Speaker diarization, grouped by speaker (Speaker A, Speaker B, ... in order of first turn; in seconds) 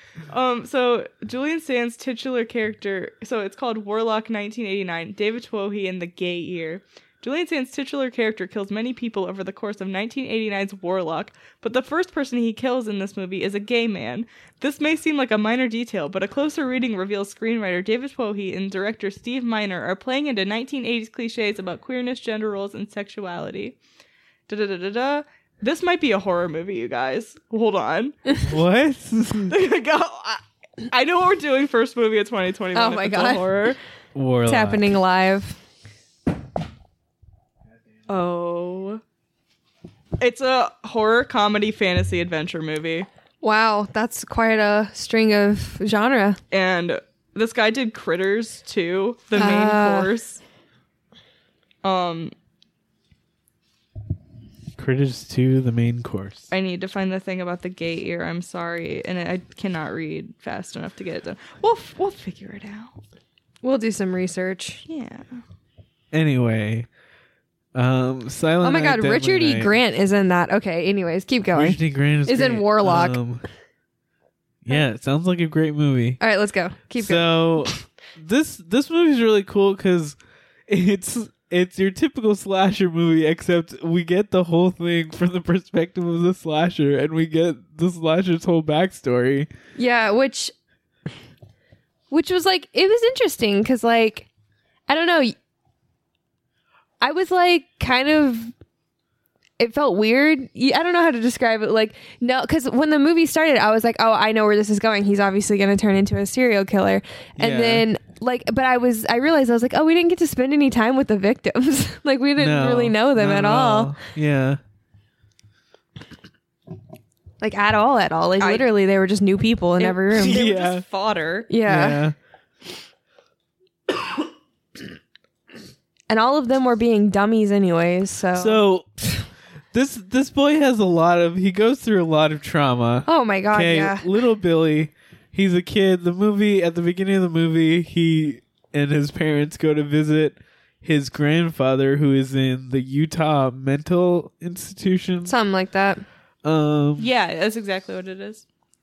Speaker A: 0.3-23.8, 24.5-28.2, 29.5-33.8, 38.1-39.0, 40.2-43.1, 46.5-50.4, 51.8-52.3, 56.5-63.0, 64.9-65.4, 118.4-118.7, 119.8-121.5, 147.0-148.4
Speaker B: 28.4-29.5, 34.1-34.9, 54.8-56.5, 66.1-66.9, 67.8-69.7, 71.5-73.4, 74.6-76.2, 77.0-80.2, 80.7-89.5, 107.4-107.9, 112.4-114.6, 120.2-120.8, 121.7-122.2, 128.3-129.1, 129.7-145.3, 146.4-147.1
Speaker C: 32.8-33.5, 34.5-35.6, 43.4-46.4, 49.4-50.1, 63.6-64.8, 68.6-73.2, 76.2-77.7, 89.8-90.5, 92.1-94.3, 94.9-95.3, 97.0-98.5, 99.6-113.9, 117.4-120.5, 121.5-122.0, 126.1-128.6, 133.1-134.1, 145.3-146.0